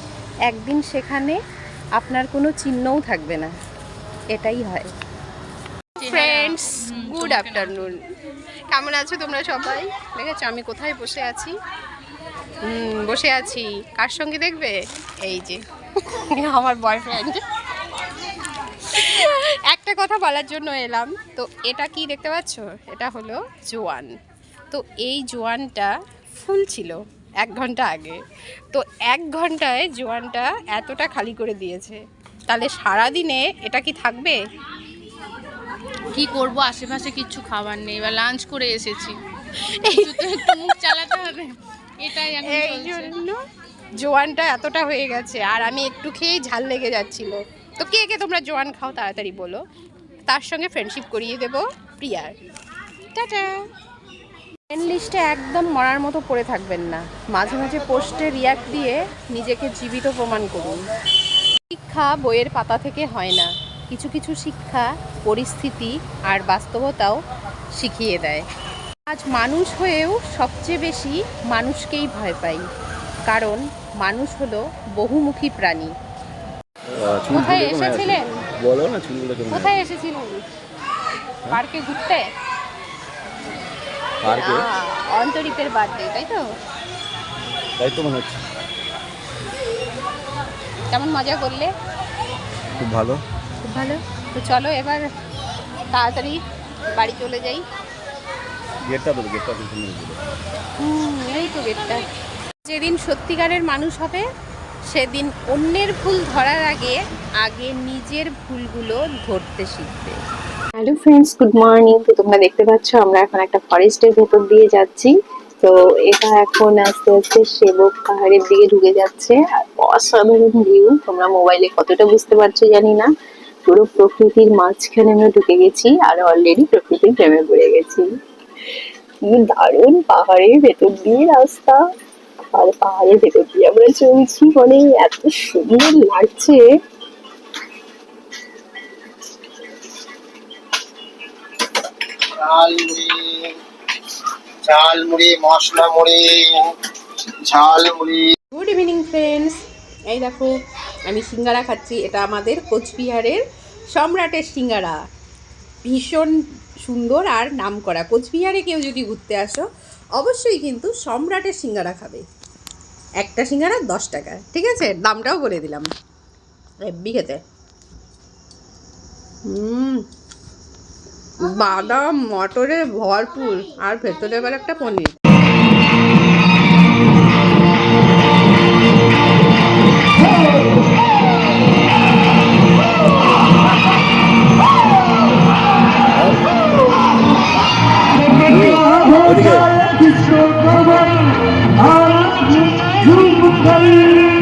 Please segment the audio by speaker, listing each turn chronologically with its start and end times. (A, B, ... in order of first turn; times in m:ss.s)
0:00.5-0:01.4 A
0:02.0-0:03.5 A
0:04.3-0:04.9 A
0:06.0-0:07.9 B
0:06.0-0:08.0 A
0:08.7-0:11.5 A
0:12.6-0:17.4 A
0:18.8-0:24.2 A
0:24.7-0:28.2 A
0:28.7-0:34.4 A
0:36.1-0:39.2 B
0:39.8-0:41.0 A
0:39.9-0:43.1 B
0:42.3-0:43.4 A
0:44.0-0:49.6 A
0:50.3-0:52.3 A
0:53.1-0:53.7 A
0:54.7-1:00.8 A
1:01.7-1:07.2 A
1:07.8-1:08.4 A
1:09.1-1:12.6 A
1:13.3-1:15.9 A
1:17.0-1:19.8 C
1:17.3-1:18.2 A
1:19.5-1:20.4 A
1:21.5-1:22.2 A
1:24.2-1:24.7 C
1:24.4-1:26.4 A
1:27.8-1:28.4 C
1:30.9-1:31.7 A
1:32.8-1:33.2 C
1:33.6-1:35.0 A
1:35.9-1:36.4 A
1:36.9-1:37.6 A
1:38.8-1:40.2 C
1:40.8-1:42.1 A
1:42.6-1:44.2 A
1:44.9-1:50.2 A
1:50.8-2:03.1 D
2:03.7-2:08.0 D
2:08.7-2:11.8 D
2:12.5-2:16.6 D
2:22.2-2:23.6 E
2:24.6-2:26.7 E
2:27.4-2:28.3 E
2:28.5-2:30.5 A
2:31.1-2:33.4 A
2:33.9-2:35.0 A
2:35.8-2:39.6 A
2:40.2-2:42.2 A
2:43.2-2:45.9 A
2:46.8-2:47.4 A
2:49.5-2:50.0 A
2:51.4-2:55.2 A
3:06.2-3:06.4 C
3:08.4-3:09.9 C